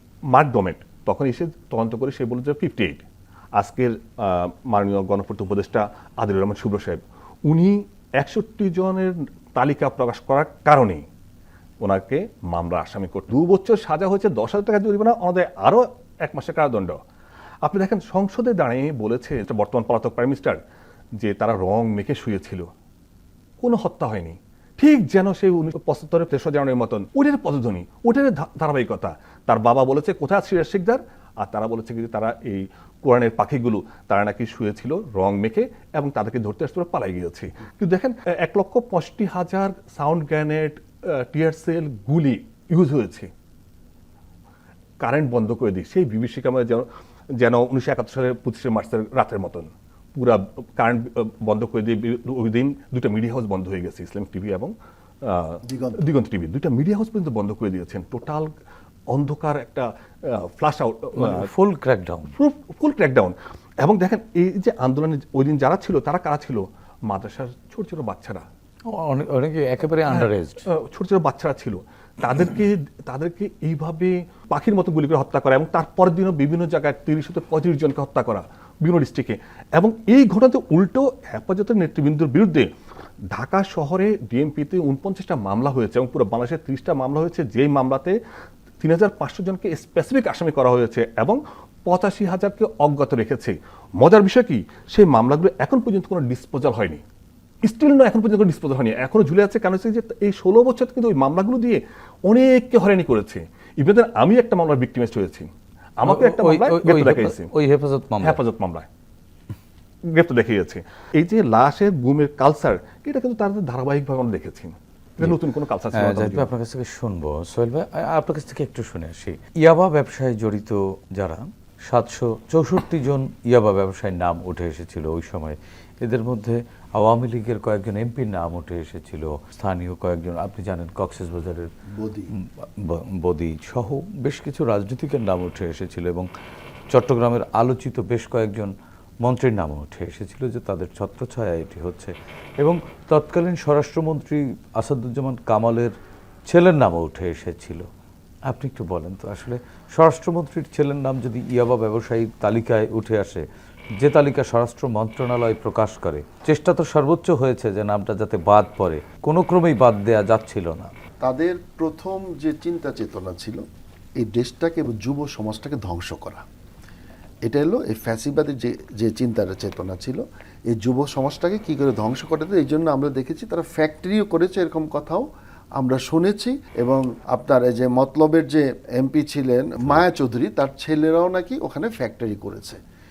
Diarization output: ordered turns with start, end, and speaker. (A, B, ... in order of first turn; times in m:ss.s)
0:00.3-0:03.0 A
0:03.6-0:11.0 A
0:11.8-0:17.0 A
0:17.6-0:20.6 A
0:21.2-0:22.7 A
0:23.6-0:43.3 A
0:45.0-0:58.5 A
0:55.6-0:56.1 B
0:59.1-1:01.5 A
1:01.1-1:02.3 C
1:02.3-1:08.4 A
1:08.9-1:10.6 C
1:10.1-1:22.7 A
1:23.3-1:28.2 A
1:28.8-1:37.0 A
1:37.6-1:47.5 A
1:46.0-1:48.4 C
1:48.2-1:48.9 A
1:50.0-1:56.5 A
1:55.9-2:11.7 C
2:11.9-2:12.3 B
2:12.3-2:16.3 C
2:16.9-2:26.0 C
2:26.5-2:27.9 C
2:28.5-2:33.4 C
2:34.0-2:40.9 C
2:41.2-2:43.6 B
2:44.2-2:46.4 B
2:47.4-3:02.8 B